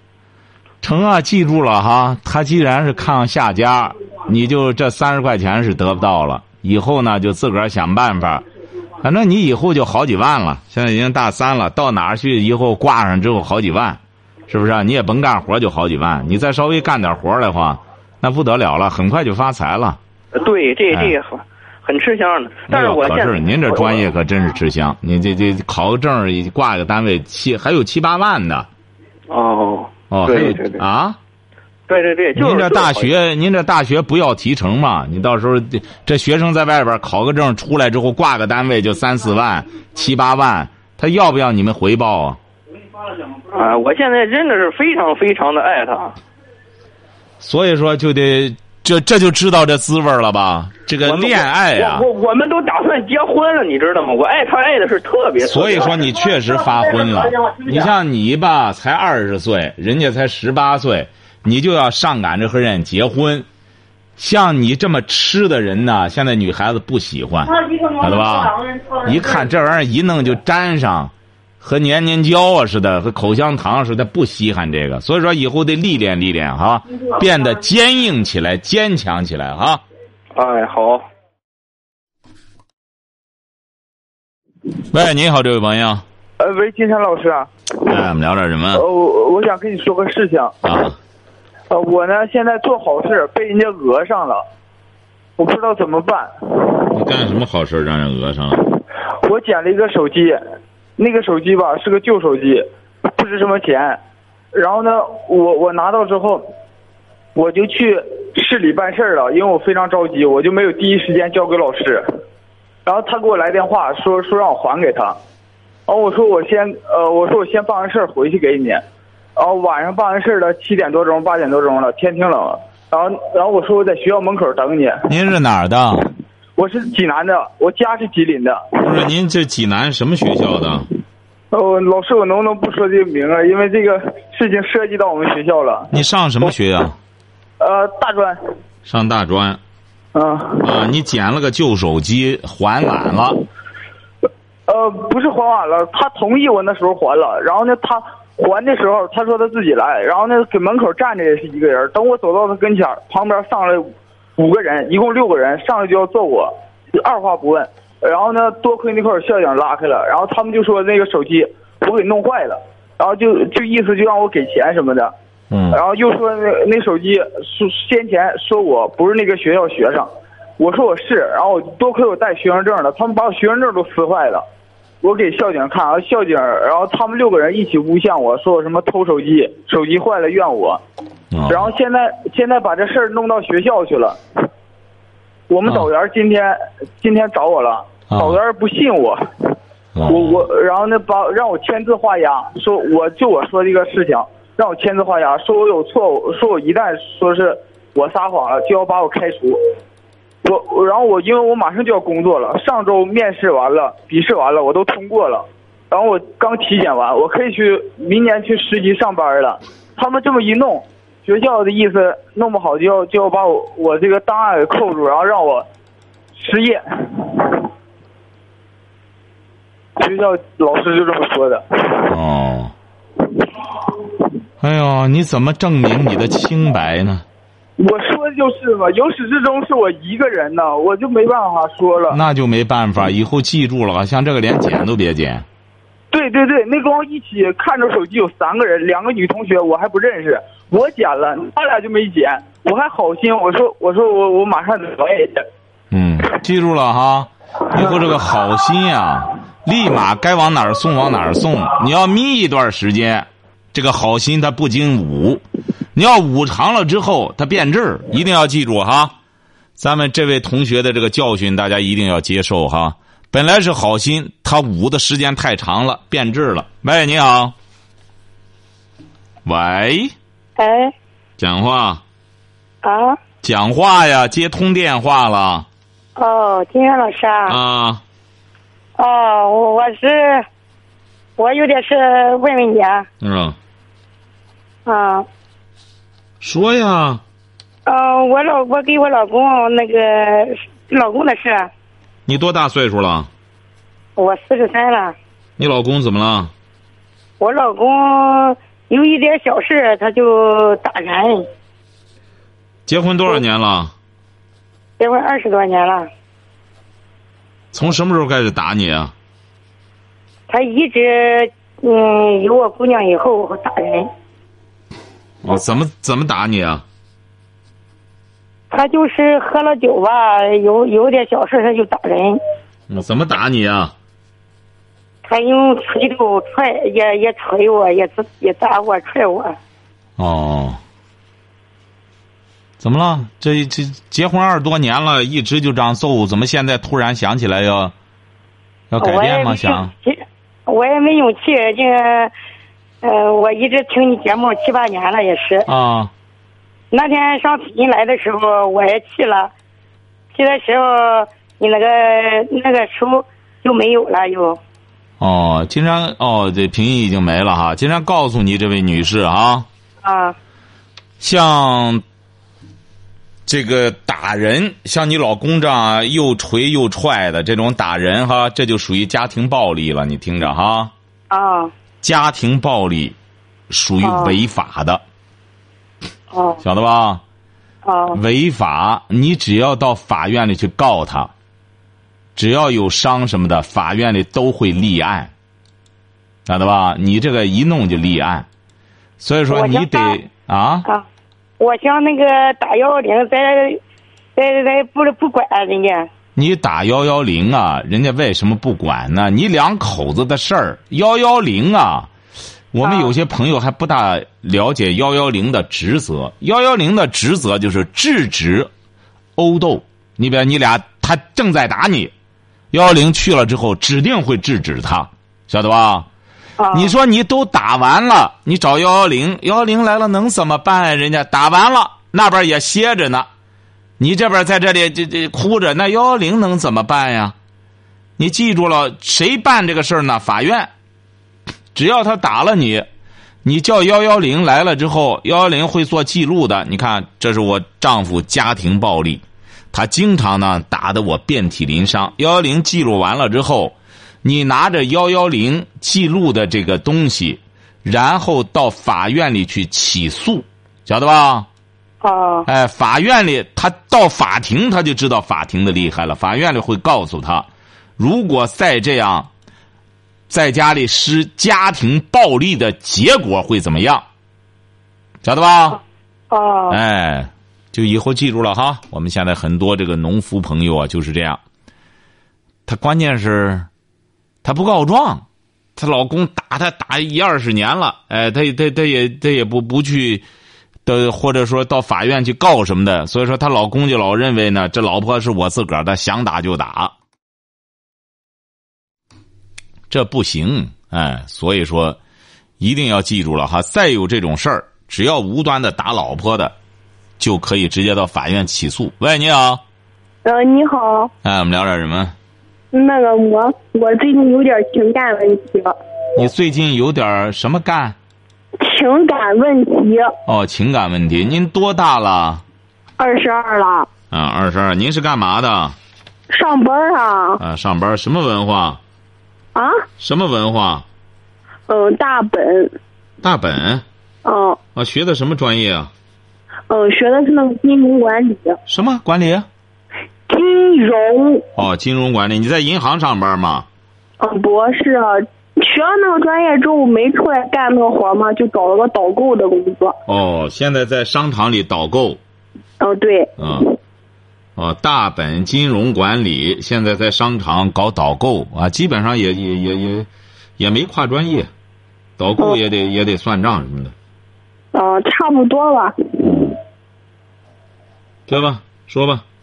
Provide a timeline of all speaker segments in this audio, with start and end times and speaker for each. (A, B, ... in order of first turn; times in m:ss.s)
0:00.8-0:08.4 A
0:09.0-0:20.0 A
0:20.3-0:24.0 B
0:22.7-0:28.7 A
0:29.3-0:30.8 B
0:30.1-0:31.2 A
0:31.9-0:33.1 B
0:32.4-0:42.4 A
0:43.5-0:46.2 B
0:47.4-0:52.0 A
0:51.0-0:56.1 B
0:55.4-1:03.4 A
1:04.2-1:19.8 A
1:20.3-1:21.0 B
1:24.9-1:26.0 A
1:26.4-1:27.5 C
1:27.8-1:28.8 A
1:28.7-1:30.5 C
1:30.6-1:31.0 A
1:31.7-1:34.4 C
1:35.4-1:36.9 C
1:36.9-1:38.6 A
1:39.2-1:40.4 C
1:41.0-1:44.0 C
1:44.5-1:46.4 C
1:47.3-1:52.0 C
1:52.8-1:55.2 C
1:55.9-1:58.8 C
1:59.4-2:05.0 C
2:05.1-2:06.1 A
2:06.6-2:08.8 C
2:08.8-2:10.9 A
2:11.5-2:15.9 C
2:15.9-2:17.0 A
2:17.6-2:18.4 C
2:18.8-2:19.6 A
2:20.1-2:20.7 C
2:20.6-2:23.4 A
2:24.7-2:45.1 C
2:45.5-2:45.8 A
2:45.7-2:54.4 C
2:55.0-3:00.8 C
3:01.3-3:01.7 A
3:01.5-3:04.2 C
3:05.5-3:09.5 C
3:08.1-3:08.4 A
3:09.9-3:10.5 A
3:10.1-3:19.6 C
3:20.4-3:35.6 C
3:36.4-3:37.7 C
3:40.0-3:42.1 C
3:42.1-3:42.7 A
3:44.6-3:47.2 A
3:47.8-3:52.2 C
3:52.1-3:55.4 A
3:56.1-4:05.4 C
4:05.9-4:15.4 A
4:15.9-4:19.1 A
4:19.8-4:27.5 A
4:29.4-4:30.1 A
4:30.6-4:30.9 D
4:31.4-4:32.0 A
4:32.8-4:33.2 D
4:33.4-4:35.7 A
4:36.2-4:37.6 D
4:37.5-4:38.0 A
4:39.0-4:40.4 D
4:41.4-4:43.1 D
4:43.2-4:43.6 A
4:44.8-4:45.2 D
4:46.4-4:47.2 A
4:47.8-4:51.7 D
4:52.3-4:53.3 A
4:54.2-4:55.1 D
4:55.6-4:56.5 A
4:57.4-5:01.4 D
5:02.8-5:03.9 A
5:05.0-5:06.1 D
5:07.7-5:09.1 A
5:10.5-5:14.1 D
5:15.4-5:16.8 A
5:18.7-5:22.4 D
5:22.9-5:23.9 A
5:25.2-5:29.6 D
5:30.2-5:30.8 A
5:32.8-5:37.9 A
5:38.9-5:39.9 A
5:39.0-5:42.3 D
5:43.0-5:45.7 D
5:45.7-5:46.1 A
5:46.9-5:49.5 D
5:50.3-5:54.6 D
5:55.2-5:59.7 A
6:00.0-6:00.4 D
6:01.2-6:02.0 A
6:03.4-6:10.9 A
6:11.3-6:11.7 D
6:12.0-6:13.2 A
6:13.7-6:15.0 A
6:14.0-6:14.4 D
6:16.3-6:16.6 D
6:16.6-6:17.2 A
6:17.8-6:18.2 D
6:18.1-6:21.3 A
6:22.4-6:25.3 A
6:26.4-6:28.5 A
6:29.2-6:30.8 A
6:29.5-6:30.2 D
6:31.6-6:33.8 D
6:34.4-6:36.1 D
6:36.4-6:42.1 A
6:42.7-6:48.7 A
6:42.8-6:43.1 D
6:49.4-6:52.1 A
6:52.7-6:56.1 A
6:56.6-6:56.9 D
6:56.7-7:03.3 A
7:04.0-7:07.4 A
7:08.2-7:10.7 A
7:11.7-7:12.9 A
7:13.4-7:31.5 A
7:32.0-7:32.5 D
7:32.5-7:39.3 A
7:40.3-7:44.0 A
7:45.2-7:45.8 A
7:46.3-7:46.8 D
7:46.7-7:51.4 A
7:52.6-7:53.7 A
7:54.4-7:55.2 A
7:55.8-8:00.2 A
8:00.8-8:06.9 A
8:09.9-8:12.0 A
8:12.6-8:16.5 A
8:17.2-8:19.6 A
8:20.2-8:21.1 E
8:21.2-8:22.1 A
8:22.7-8:25.8 E
8:26.2-8:28.0 A
8:28.6-8:30.1 E
8:30.3-8:32.4 A
8:33.0-8:33.9 E
8:34.1-8:35.8 A
8:36.3-8:37.4 E
8:37.4-8:38.8 A
8:39.5-8:39.8 E
8:40.0-8:40.8 A
8:41.7-8:42.7 E
8:43.2-8:43.8 A
8:44.2-8:44.6 E
8:44.7-8:45.9 A
8:46.7-8:48.6 E
8:48.7-8:49.5 A
8:50.3-8:51.4 E
8:51.6-8:53.7 A
8:54.2-9:00.0 E
9:00.1-9:02.2 A
9:02.8-9:03.6 E
9:03.4-9:03.7 A
9:04.6-9:11.5 A
9:12.2-9:13.9 A
9:14.7-9:16.3 E
9:16.2-9:16.6 A
9:18.3-9:19.2 A